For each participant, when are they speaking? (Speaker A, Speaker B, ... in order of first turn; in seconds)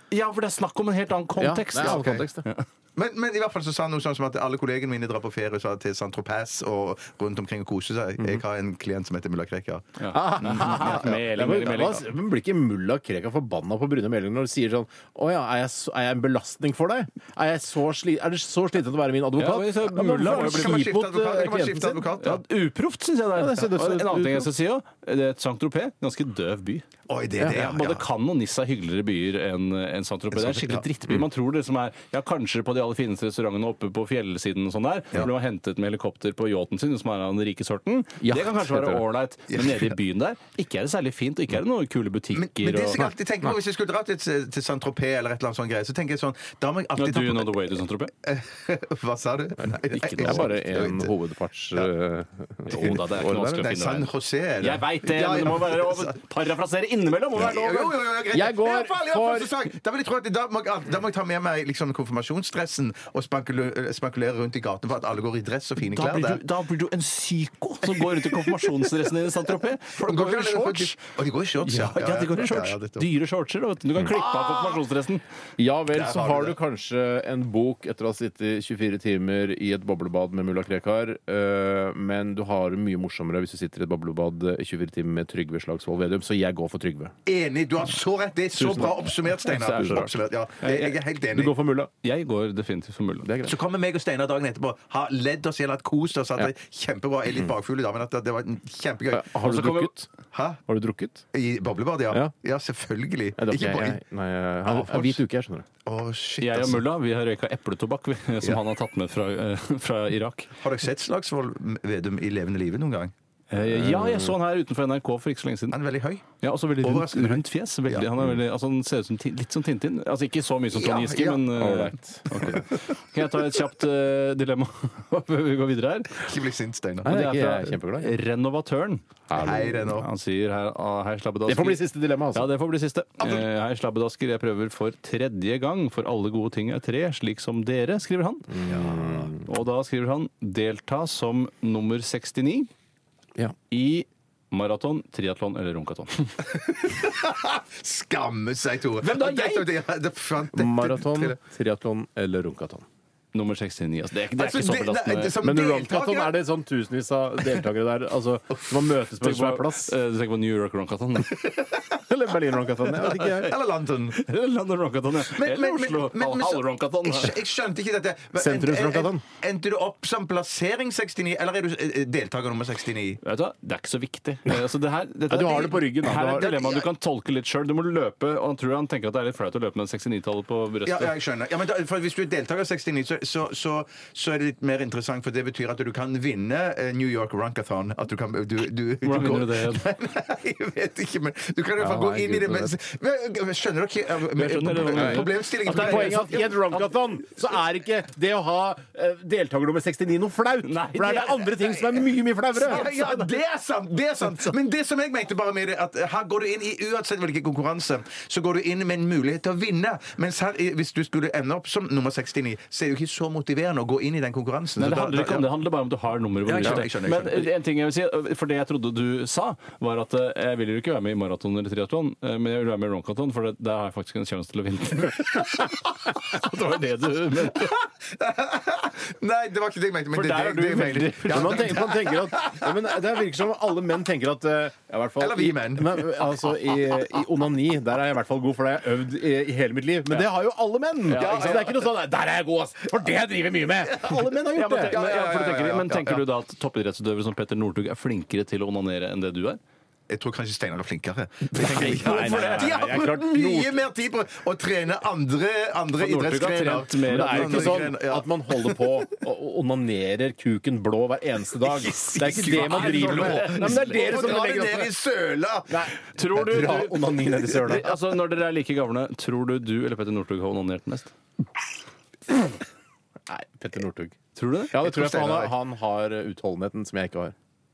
Speaker A: 0.1-2.6, 10.0-12.0, 19.4-20.9, 22.2-26.9, 27.4-43.0, 47.0-48.1, 49.9-50.5, 52.6-58.0, 65.8-71.0, 71.6-75.2, 88.6-91.0, 92.0-93.3, 99.4-99.9, 106.4-110.5, 113.5-115.8, 116.4-126.2, 127.0-129.1, 129.7-138.5, 139.4-142.7, 143.7-146.4, 149.0-149.7, 153.3-155.4, 159.2-161.4, 163.0-163.5, 164.1-167.4, 173.2-181.1, 189.0-189.8, 194.3-196.8, 200.6-201.9, 202.6-203.3, 214.8-227.8, 230.1-231.8, 241.1-241.7, 244.5-249.6, 251.6-252.9, 256.0-257.9, 261.8-264.2, 266.1-271.1, 274.3-274.9
Speaker B: 1.4-2.4, 10.1-22.1, 23.3-24.5, 38.2-39.0, 50.0-53.7, 58.3-59.5, 75.6-87.1, 88.6-88.9, 89.7-90.1, 91.3-91.9, 93.2-93.6, 99.1-100.1, 100.7-101.2, 103.4-105.7, 113.7-114.3, 121.5-122.6, 127.0-128.1, 129.3-129.9, 131.5-132.5, 138.5-139.4, 150.5-152.8, 155.4-159.9, 162.0-163.5, 168.3-169.2, 175.3-176.5, 191.8-192.7, 194.9-202.9, 231.3-245.0, 251.6-253.8, 257.0-264.9, 265.7-267.9, 273.3-274.2, 274.7-277.3
Speaker C: 1.8-2.2, 3.0-11.8, 20.2-22.4, 27.1-28.0, 30.4-30.8, 39.6-39.8, 42.3-51.1, 52.8-56.1, 57.4-66.4, 67.9-68.5, 69.9-73.0, 74.1-74.5, 75.9-76.5, 87.2-91.5, 93.4-99.3, 100.3-100.6, 101.3-104.0, 104.6-105.2, 105.8-106.8, 110.6-113.1, 115.7-116.2, 116.8-118.1, 120.7-121.7, 126.2-127.1, 129.3-130.1, 138.7-139.2, 146.5-151.4, 154.3-156.4, 161.3-161.8, 163.2-164.2, 165.3-173.2, 176.3-176.9, 180.8-196.6, 202.6-215.5, 216.4-217.5, 228.2-232.8, 235.2-236.3, 241.1-241.7, 244.8-246.2, 250.1-258.8, 262.1-265.8, 274.8-275.5